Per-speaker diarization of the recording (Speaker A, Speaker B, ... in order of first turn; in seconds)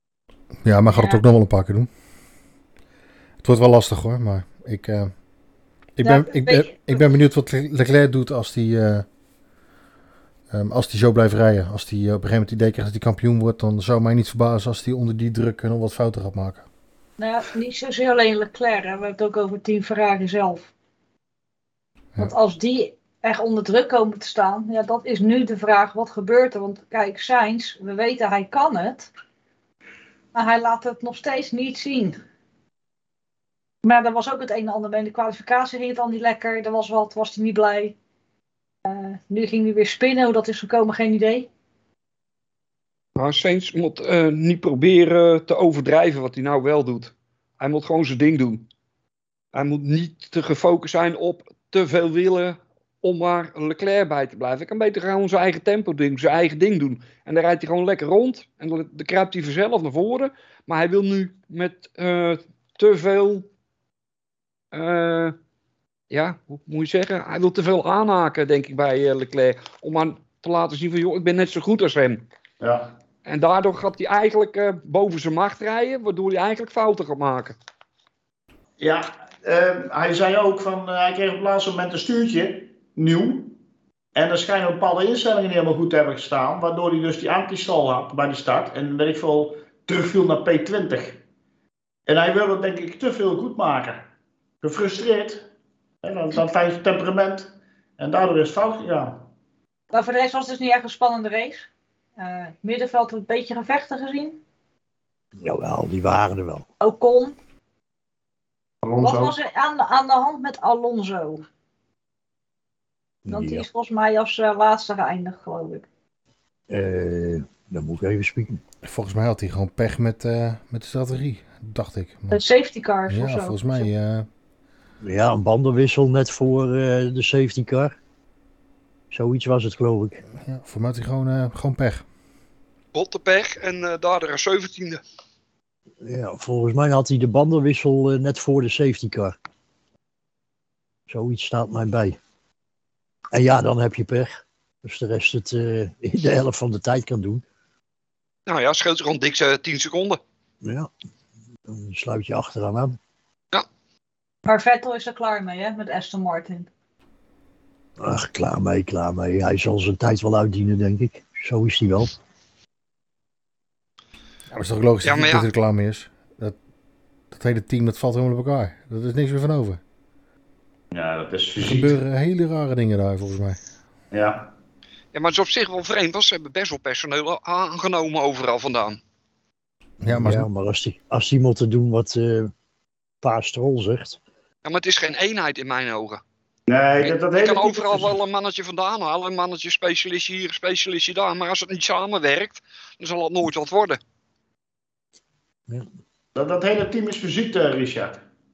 Speaker A: 0.6-1.9, 3.4-5.1, 6.0-9.1, 10.5-16.7, 118.8-122.4, 123.1-124.3, 130.4-132.0, 164.5-166.6, 167.3-169.8, 171.6-173.6, 180.0-180.5
Speaker B: 0.9-1.2, 6.0-7.1, 17.2-20.7, 22.2-29.1, 30.3-32.2, 33.8-38.0, 38.9-41.5, 99.9-104.4, 106.8-107.4, 109.0-111.4, 113.3-115.9, 122.3-123.9, 154.4-156.7
Speaker C: 43.2-48.6, 49.5-63.5, 64.7-65.3, 66.1-72.2, 73.2-77.6, 132.9-135.0, 148.5-150.2, 165.0-165.5, 175.1-179.0, 184.7-186.2, 187.0-194.0
Speaker D: 72.6-72.9, 78.8-83.6, 84.2-91.2, 92.1-94.1, 94.6-95.5, 96.0-99.3, 108.8-109.3, 170.9-171.9, 174.1-174.5, 186.7-188.1, 196.3-198.2
Speaker E: 105.4-106.7, 113.3-113.7, 116.7-118.6, 125.0-128.0, 129.1-130.2, 136.0-139.3, 141.1-142.2, 143.3-147.4, 150.6-150.9, 151.7-153.0, 158.0-162.1, 180.1-182.5, 183.2-184.2